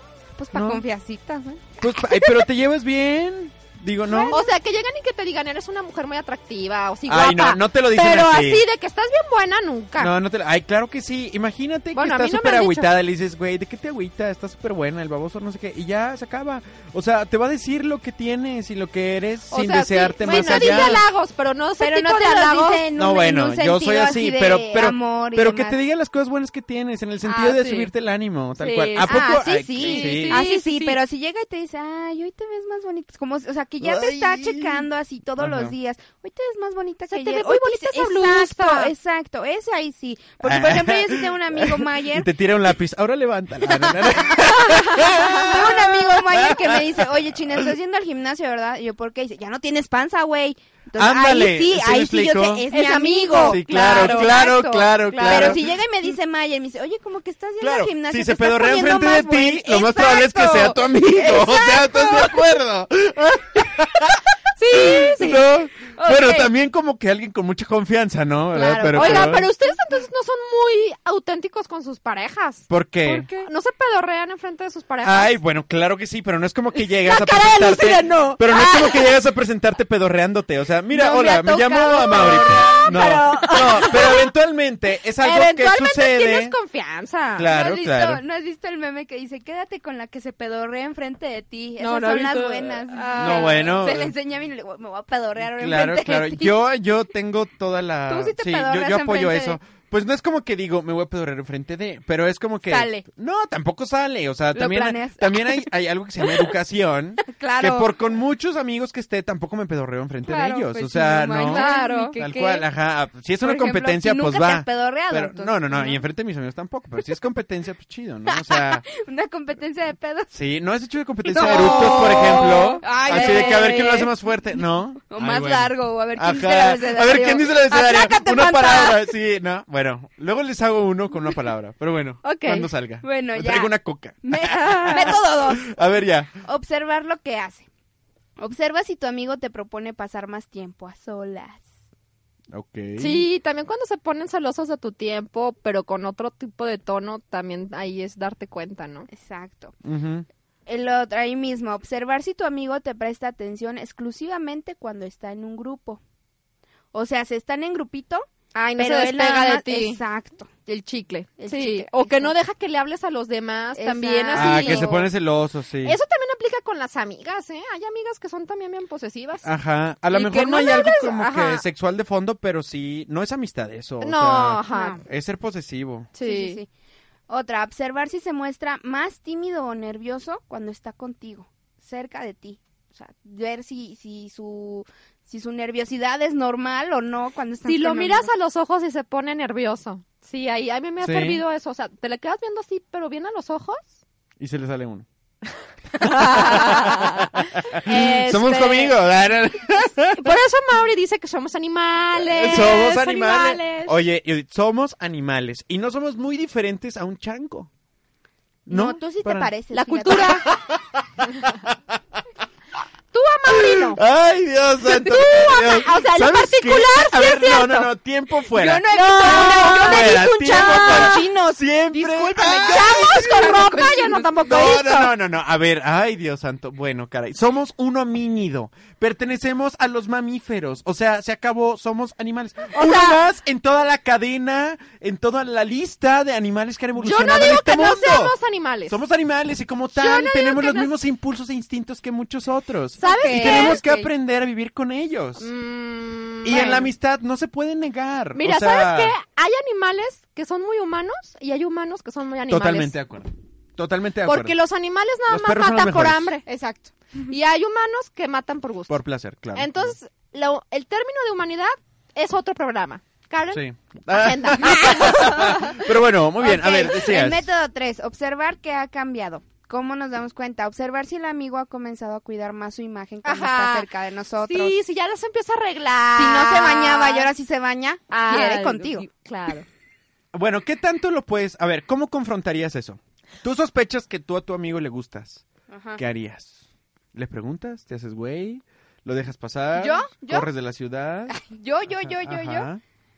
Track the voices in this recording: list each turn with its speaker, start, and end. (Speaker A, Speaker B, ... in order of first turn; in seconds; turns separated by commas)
Speaker A: 0.4-1.7, Speaker B: 0.5-0.8, Speaker B: 1.8-4.4, Speaker C: 2.1-2.4, Speaker A: 4.0-4.4, Speaker C: 4.3-10.1, Speaker B: 7.1-8.7, Speaker B: 10.0-21.0, Speaker C: 11.9-12.9, Speaker C: 19.5-22.8, Speaker A: 20.2-21.1, Speaker A: 21.8-25.8, Speaker B: 22.9-30.4, Speaker C: 27.2-27.9, Speaker C: 28.6-31.0, Speaker A: 29.0-42.3, Speaker B: 33.8-34.9, Speaker B: 35.4-35.7, Speaker C: 37.1-38.9, Speaker B: 40.4-46.8, Speaker A: 43.6-62.4, Speaker C: 44.7-45.5, Speaker B: 51.0-52.7, Speaker C: 52.7-55.6, Speaker B: 53.3-55.6, Speaker B: 57.6-69.5, Speaker C: 64.6-65.4, Speaker A: 66.0-66.5, Speaker A: 68.5-69.8, Speaker C: 68.9-72.7, Speaker B: 72.7-73.3, Speaker A: 73.0-73.5, Speaker C: 73.3-75.3, Speaker B: 75.0-86.5, Speaker C: 77.0-79.0, Speaker A: 80.9-84.2, Speaker C: 81.9-84.3, Speaker C: 85.2-87.5, Speaker B: 87.3-88.2, Speaker A: 87.5-96.7, Speaker C: 91.8-93.8, Speaker B: 93.2-94.1, Speaker B: 95.5-111.6, Speaker A: 98.1-99.6, Speaker A: 102.7-103.0, Speaker A: 104.5-105.7, Speaker A: 107.3-107.9, Speaker A: 110.2-112.7, Speaker C: 111.5-112.3, Speaker B: 112.2-118.9, Speaker A: 113.4-116.0, Speaker A: 118.3-120.3, Speaker B: 120.3-136.3, Speaker A: 121.2-124.1, Speaker C: 121.3-123.9, Speaker A: 125.0-129.1, Speaker C: 132.2-132.7, Speaker A: 133.0-135.7, Speaker A: 136.4-137.7, Speaker A: 138.4-141.7, Speaker B: 142.5-143.2, Speaker C: 143.0-149.1, Speaker A: 149.1-149.7, Speaker B: 149.8-150.3, Speaker A: 150.7-156.0, Speaker A: 156.9-160.5, Speaker C: 158.5-160.0, Speaker C: 160.7-165.1, Speaker A: 161.4-162.3, Speaker A: 163.7-165.0, Speaker B: 164.3-166.0, Speaker C: 165.8-169.4, Speaker B: 169.4-176.1, Speaker C: 170.1-171.6, Speaker C: 174.0-175.0, Speaker A: 174.7-175.0, Speaker C: 176.1-176.6, Speaker A: 176.2-176.7, Speaker A: 177.3-188.3, Speaker C: 187.7-194.0, Speaker B: 191.0-191.4, Speaker B: 194.4-195.1, Speaker C: 195.9-198.9, Speaker B: 196.0-200.3, Speaker C: 200.2-204.0, Speaker B: 202.2-207.7, Speaker B: 208.7-209.5, Speaker A: 208.7-210.6, Speaker C: 209.7-210.5, Speaker B: 210.1-211.7, Speaker C: 213.1-214.0, Speaker B: 213.5-223.6, Speaker C: 214.9-217.9, Speaker A: 218.5-224.4, Speaker C: 218.9-221.2, Speaker C: 222.4-225.1, Speaker B: 224.5-238.3, Speaker C: 232.7-233.2, Speaker C: 237.0-239.0, Speaker B: 238.9-245.5, Speaker C: 239.9-240.9, Speaker C: 243.0-243.8, Speaker A: 243.0-244.1, Speaker C: 245.4-246.9, Speaker B: 246.4-249.1, Speaker C: 248.3-252.9, Speaker B: 252.5-254.6, Speaker C: 254.2-256.4, Speaker B: 255.3-256.3, Speaker A: 256.4-256.9, Speaker C: 257.3-259.0, Speaker B: 258.9-259.9, Speaker C: 259.5-265.6, Speaker B: 263.5-267.5, Speaker A: 265.1-265.6, Speaker A: 266.4-274.8, Speaker C: 273.2-273.9, Speaker C: 274.4-277.3, Speaker A: 276.1-279.1, Speaker C: 278.1-279.6, Speaker B: 280.3-285.4, Speaker A: 285.7-286.0, Speaker B: 286.0-286.6, Speaker B: 287.1-291.4, Speaker A: 289.7-290.5, Speaker A: 291.3-292.7, Speaker B: 292.1-292.8